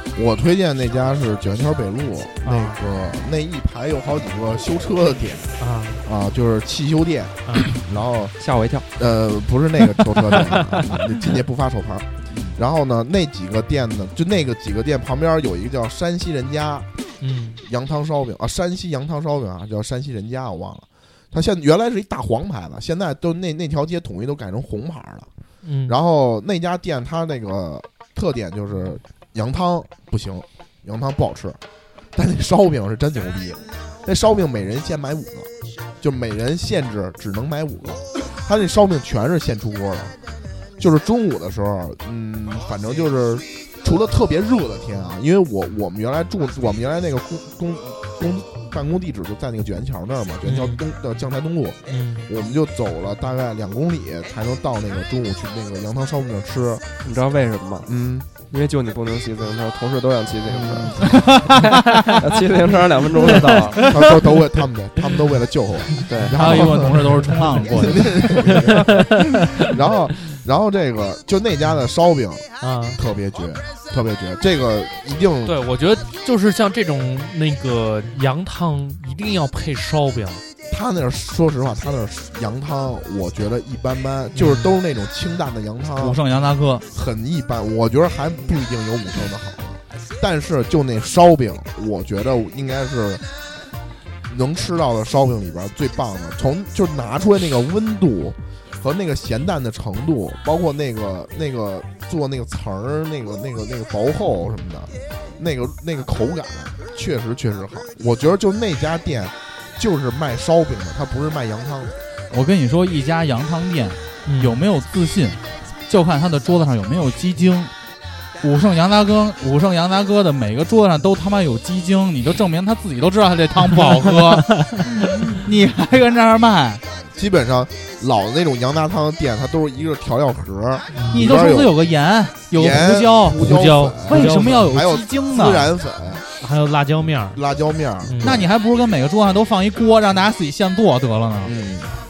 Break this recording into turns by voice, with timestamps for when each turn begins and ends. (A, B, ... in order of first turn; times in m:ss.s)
0:00.1-0:08.3 A
0:02.4-0:02.8 B
0:05.6-0:06.0 B
0:08.4-0:08.9 C
0:09.0-0:16.9 A
0:17.2-0:17.6 B
0:17.6-0:25.3 A
0:25.6-0:26.0 B
0:25.9-0:31.6 A
0:32.1-0:40.2 A
0:40.8-0:56.9 A
0:50.4-0:50.8 B
0:51.9-0:52.3 B
0:57.0-0:57.9 C
0:57.9-0:58.3 A
0:58.5-1:01.1 C
1:00.5-1:01.3 A
1:01.1-1:01.7 D
1:02.2-1:03.9 C
1:03.8-1:09.1 A
1:06.1-1:06.5 C
1:06.3-1:08.5 D
1:06.4-1:07.4 B
1:09.6-1:15.6 A
1:12.6-1:13.0 B
1:15.4-1:20.4 B
1:20.7-1:26.2 A
1:24.3-1:24.7 B
1:26.0-1:26.8 D
1:26.9-1:33.2 A
1:34.3-1:52.0 A
1:52.3-1:57.7 D
1:54.3-1:54.6 B
1:58.4-2:06.8 D
2:07.1-2:11.8 A
2:11.1-2:15.7 D
2:12.5-2:16.2 A
2:13.4-2:14.7 B
2:16.4-2:17.4 B
2:17.3-2:18.5 A
2:18.0-2:18.4 B
2:18.2-2:21.5 D
2:21.4-2:22.0 A